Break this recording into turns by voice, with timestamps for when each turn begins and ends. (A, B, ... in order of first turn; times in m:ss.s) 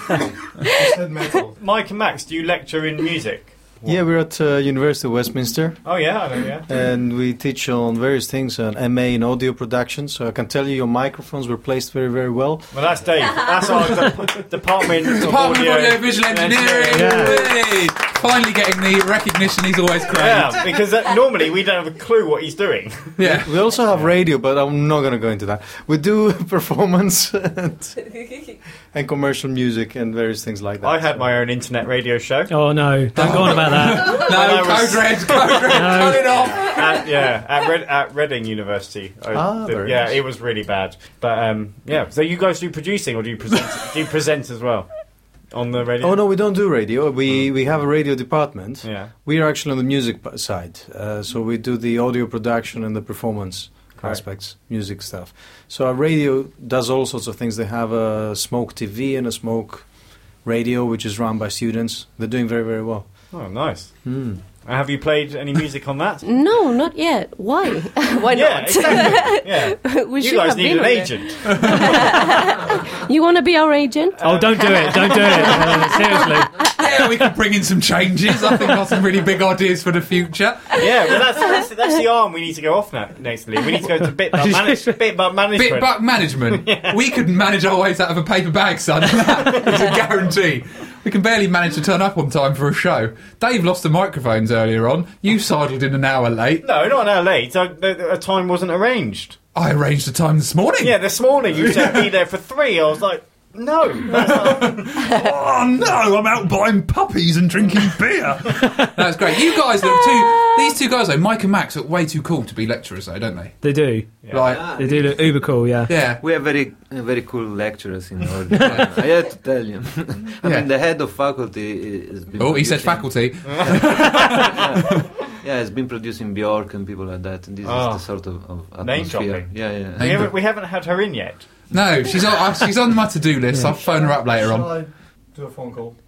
0:00.8-0:01.5 A
0:01.6-0:04.0 B
0:03.8-0:06.1 A
0:05.8-0:06.7 B
0:06.7-0:12.7 A
0:12.7-0:17.4 B
0:15.1-0:20.8 C
0:16.9-0:17.4 D
0:20.1-0:23.2 B
0:23.2-0:23.5 C
0:23.2-0:28.0 A
0:28.9-0:31.4 A
0:30.8-0:32.6 B
0:32.5-0:34.3 D
0:33.1-0:37.0 C
0:33.2-0:46.2 B
0:35.6-0:36.4 D
0:39.3-0:40.2 A
0:46.0-0:59.9 A
0:48.8-0:49.1 B
1:00.4-1:03.2 A
1:03.3-1:04.0 B
1:04.0-1:04.4 A
1:04.6-1:06.2 B
1:06.2-1:16.7 E
1:08.3-1:12.2 B
1:11.5-1:12.0 C
1:14.2-1:16.0 B
1:14.2-1:16.6 D
1:16.7-1:21.2 C
1:20.8-1:26.9 B
1:24.3-1:25.0 D
1:25.5-1:36.6 C
1:29.5-1:30.0 B
1:36.6-1:39.4 B
1:39.5-1:42.1 C
1:40.8-1:45.1 B
1:44.1-1:53.6 C
1:48.6-1:48.9 D
1:49.9-1:50.6 E
1:53.6-1:55.9 D
1:54.2-1:54.6 B
1:54.3-1:54.8 C
1:54.4-2:10.3 F
1:55.9-1:56.2 C
1:58.5-1:58.8 D
1:58.6-1:58.9 C
2:00.4-2:00.7 C
2:02.4-2:05.0 C
2:03.4-2:04.5 B
2:07.6-2:08.2 B
2:08.8-2:11.5 B
2:10.0-2:10.3 C
2:11.7-2:14.7 C
2:13.8-2:16.0 A